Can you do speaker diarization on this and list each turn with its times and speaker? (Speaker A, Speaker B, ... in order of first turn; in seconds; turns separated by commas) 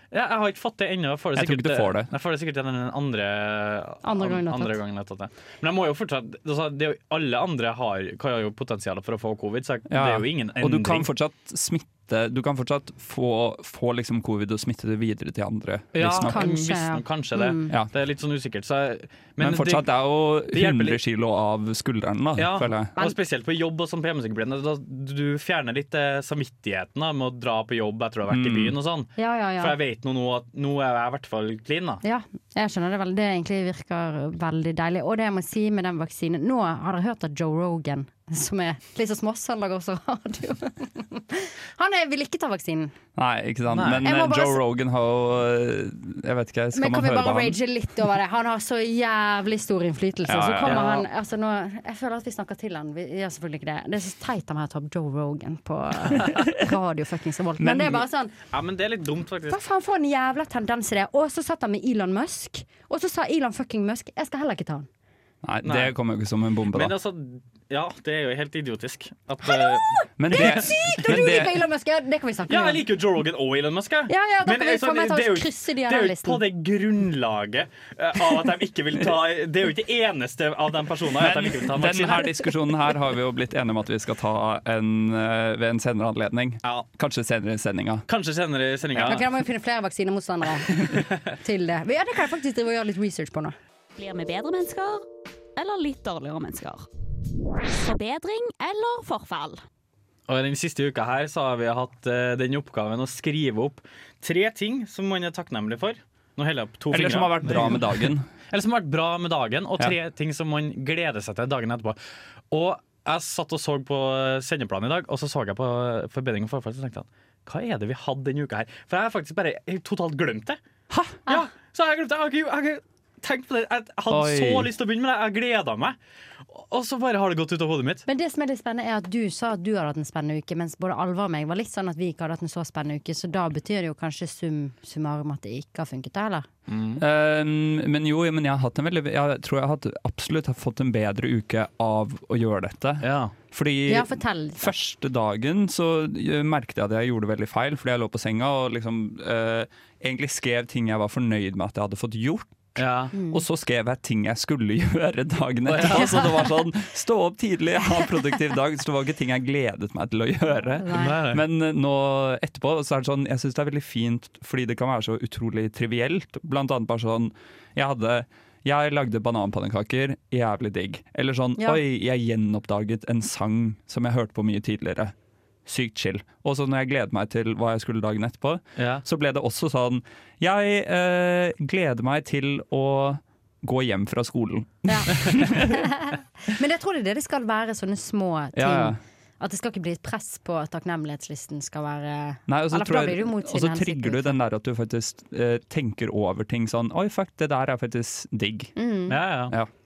Speaker A: 0.1-11.1, Speaker B: 1.4-2.1, Speaker C: 4.0-4.8, Speaker B: 9.9-16.6, Speaker A: 15.9-19.9, Speaker C: 16.2-17.7, Speaker B: 19.4-22.9, Speaker A: 20.5-21.0, Speaker A: 22.4-32.0, Speaker B: 28.3-28.7, Speaker C: 29.2-29.7, Speaker C: 32.0-42.9, Speaker B: 43.1-47.6, Speaker A: 43.7-44.0, Speaker C: 44.0-44.6, Speaker C: 46.7-58.4, Speaker B: 50.3-50.8, Speaker A: 50.6-51.0, Speaker B: 57.6-58.0, Speaker A: 58.5-59.6, Speaker C: 59.5-64.9, Speaker B: 65.4-66.9, Speaker A: 65.6-65.9, Speaker A: 66.7-70.6, Speaker C: 69.4-72.8, Speaker B: 70.2-71.6, Speaker A: 72.5-82.3, Speaker C: 74.1-76.4, Speaker B: 81.2-88.0, Speaker A: 88.1-89.2, Speaker B: 88.9-89.2, Speaker C: 89.1-93.5, Speaker A: 90.8-91.1, Speaker D: 94.0-96.9, Speaker D: 97.7-99.6, Speaker A: 100.3-112.0, Speaker B: 106.9-108.3, Speaker A: 112.5-120.6, Speaker B: 120.9-121.2, Speaker A: 121.2-126.0, Speaker B: 124.1-124.7, Speaker A: 126.5-128.0, Speaker C: 128.1-136.5, Speaker A: 136.7-137.0, Speaker B: 137.0-175.1, Speaker A: 143.0-143.3, Speaker C: 143.9-144.7, Speaker A: 152.8-153.1, Speaker C: 153.1-153.4, Speaker A: 155.7-156.4, Speaker C: 160.8-161.1, Speaker A: 160.9-161.4, Speaker B: 175.7-185.9, Speaker A: 178.8-179.0, Speaker C: 184.8-194.3, Speaker B: 188.5-189.0, Speaker B: 192.5-198.7, Speaker C: 198.8-199.2, Speaker A: 199.1-199.5